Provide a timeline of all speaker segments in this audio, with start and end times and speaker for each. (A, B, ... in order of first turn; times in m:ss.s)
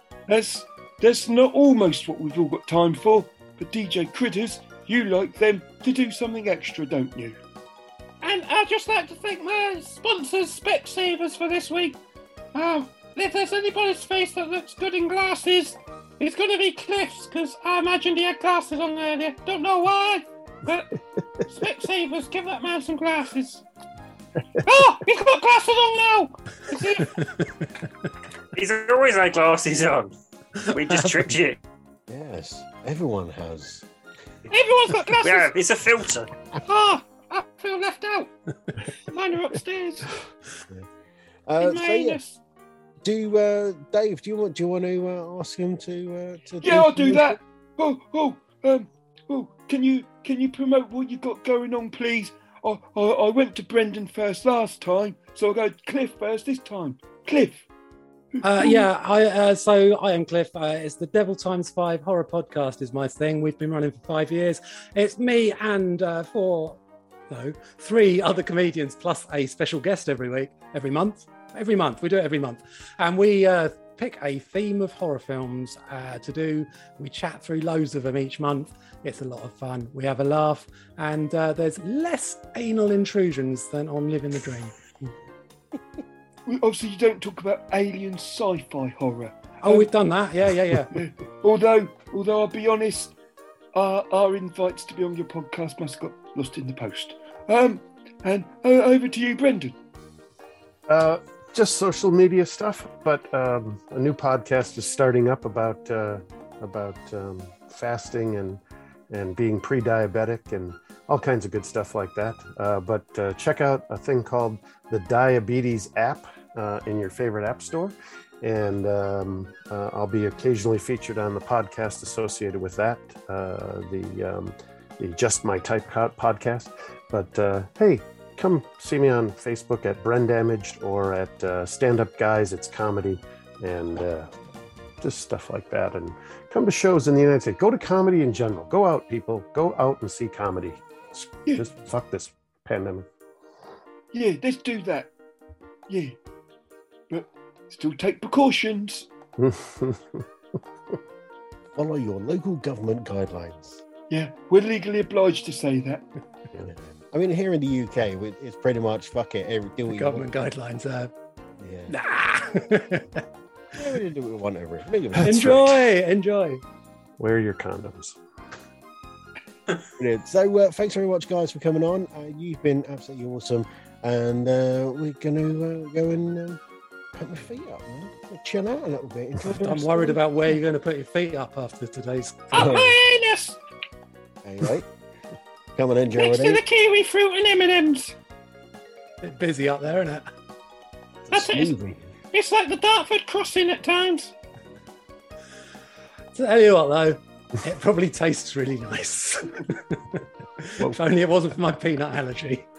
0:00.3-0:07.4 A
0:08.2-0:12.0 B
0:12.5-0:20.9 B
0:21.5-0:23.6 B
0:24.6-0:27.1 B
0:27.0-0:27.7 C
0:28.5-0:30.1 D
0:30.7-0:31.6 D
0:30.9-0:31.2 C
0:32.1-0:33.9 E
0:34.5-0:35.5 B
0:35.2-0:36.3 D
0:36.6-0:38.3 B
0:39.1-0:40.1 B
0:41.5-0:42.2 E
0:41.6-0:42.4 B
0:43.0-0:47.4 E
0:46.6-0:57.6 A
0:58.4-0:58.9 A
0:58.4-1:06.8 C
1:07.3-1:24.8 C
1:26.5-1:29.9 A
1:29.6-1:31.0 C
1:30.9-1:33.1 A
1:33.7-1:39.8 A
1:40.9-2:14.3 F
2:15.0-2:23.1 F
2:24.1-2:25.1 A
2:25.9-2:26.2 A
2:27.1-2:29.1 A
2:29.4-2:30.3 F
2:31.8-2:33.8 E
2:34.1-2:36.0 A
2:36.7-2:40.3 E
2:39.9-2:41.1 C
2:41.6-2:41.9 E
2:41.9-2:43.2 C
2:43.7-2:45.6 E
2:45.2-2:46.6 C
2:45.3-2:45.7 F
2:47.2-2:48.2 F
2:50.0-2:56.6 E
2:57.1-3:00.2 E
2:59.4-3:02.7 C
3:02.5-3:03.6 B
3:02.5-3:02.9 E
3:04.4-3:04.9 E
3:05.8-3:06.6 E
3:06.2-3:08.2 B
3:09.2-3:10.2 C
3:11.2-3:12.1 E
3:11.3-3:11.8 B
3:12.3-3:14.3 B
3:16.3-3:22.7 C